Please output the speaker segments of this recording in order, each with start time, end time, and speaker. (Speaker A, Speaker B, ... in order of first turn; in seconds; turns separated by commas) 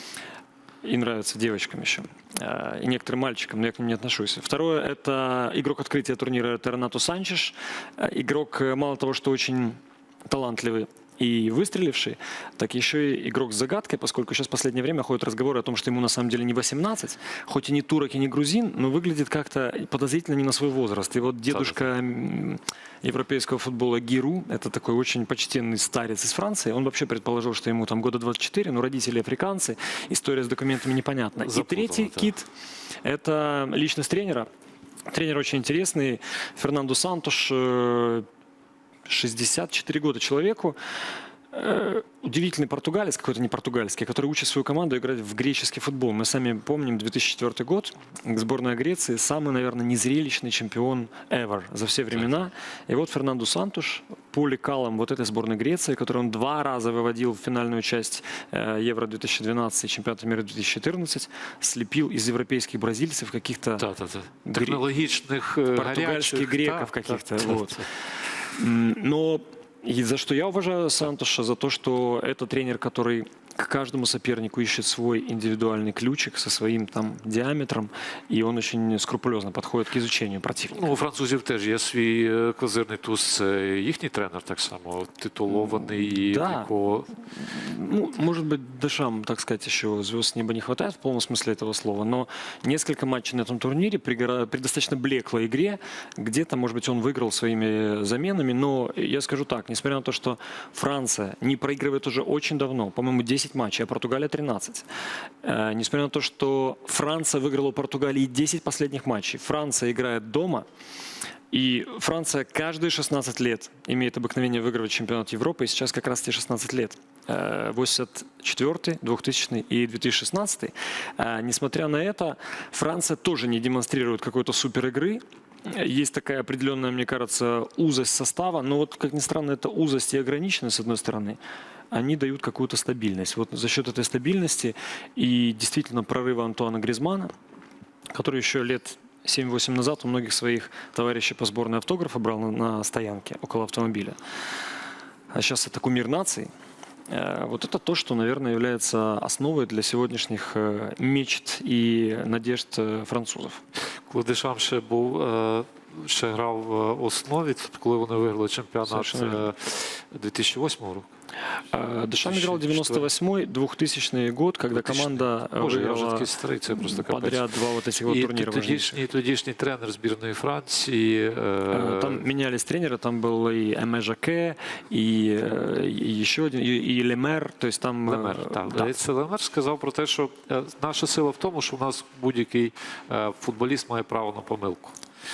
Speaker A: 0.8-32.5, Speaker B: 21.5-21.8, Speaker B: 31.4-32.3, Speaker A: 33.0-34.5, Speaker A: 35.1-38.2, Speaker A: 39.1-40.8, Speaker A: 41.5-63.9, Speaker B: 52.1-52.4, Speaker B: 63.8-67.8, Speaker A: 64.4-64.9, Speaker A: 65.7-67.9, Speaker A: 68.5-81.0, Speaker B: 80.7-87.1, Speaker A: 85.5-104.9, Speaker A: 105.4-110.7, Speaker A: 111.5-131.4, Speaker A: 131.9-137.3, Speaker A: 138.1-144.2, Speaker A: 145.3-146.5, Speaker A: 147.1-153.6, Speaker B: 154.1-161.1, Speaker A: 158.8-159.5, Speaker A: 161.6-169.0, Speaker B: 162.2-163.1, Speaker B: 164.7-167.5, Speaker B: 168.0-172.2, Speaker A: 171.7-178.9, Speaker B: 178.1-184.9